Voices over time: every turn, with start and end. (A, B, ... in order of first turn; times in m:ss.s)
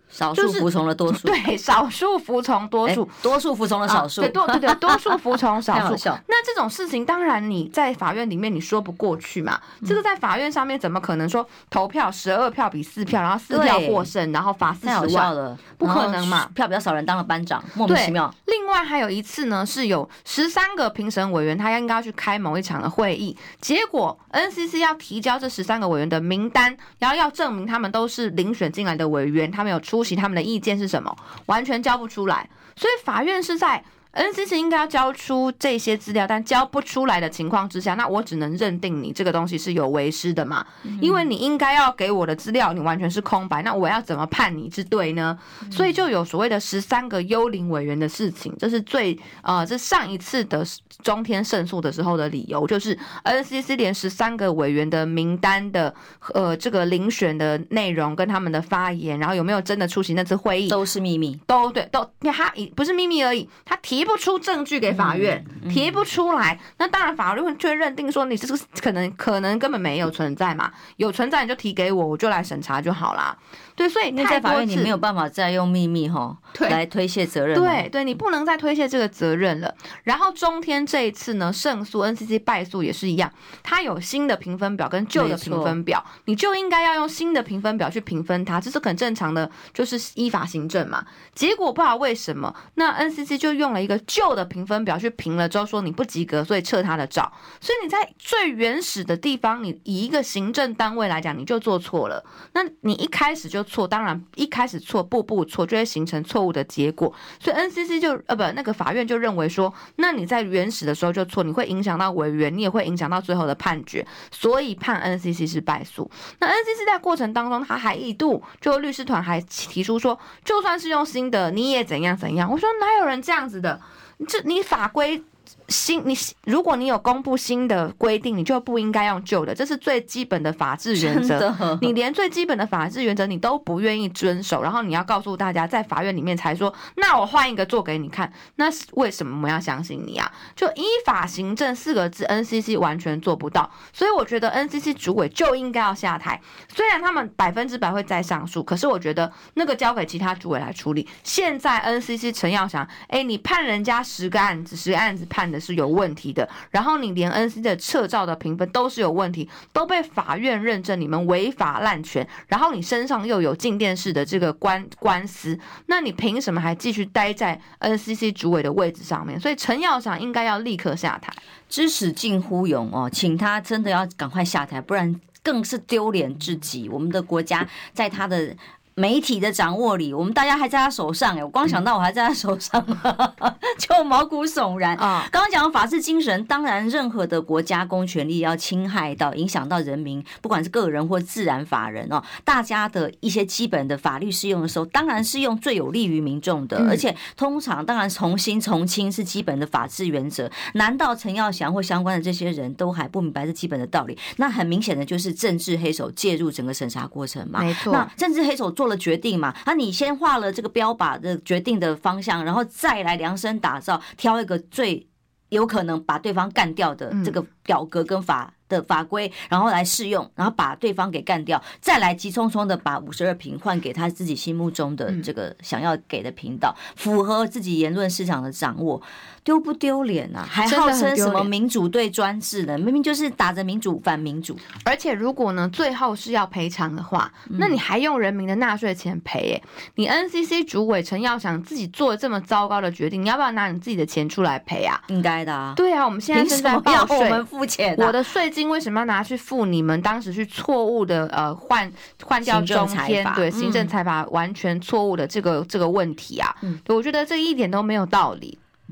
0:00.1-0:01.4 A
0:00.3-0:03.3 B
0:02.8-0:06.2 A
0:03.8-0:16.5 B
0:13.5-0:14.1 A
0:14.8-0:18.3 A
0:17.8-1:00.8 B
0:40.8-0:41.2 A
1:00.7-1:01.4 A
1:01.5-1:14.9 B
1:04.9-1:05.8 A
1:14.2-1:17.8 A
1:17.5-2:51.4 B
1:25.1-1:25.8 A
2:10.9-2:11.9 A
2:51.7-3:54.6 A
3:05.0-3:05.3 B
3:16.8-3:17.0 B
3:27.6-3:28.1 B
3:37.1-3:37.4 B
3:50.6-3:51.5 B
3:54.8-4:05.0 B
3:57.5-3:57.8 A
4:05.1-4:05.8 A
4:05.8-4:07.4 B
4:06.3-4:08.2 A
4:08.0-4:18.6 B
4:12.4-4:13.9 A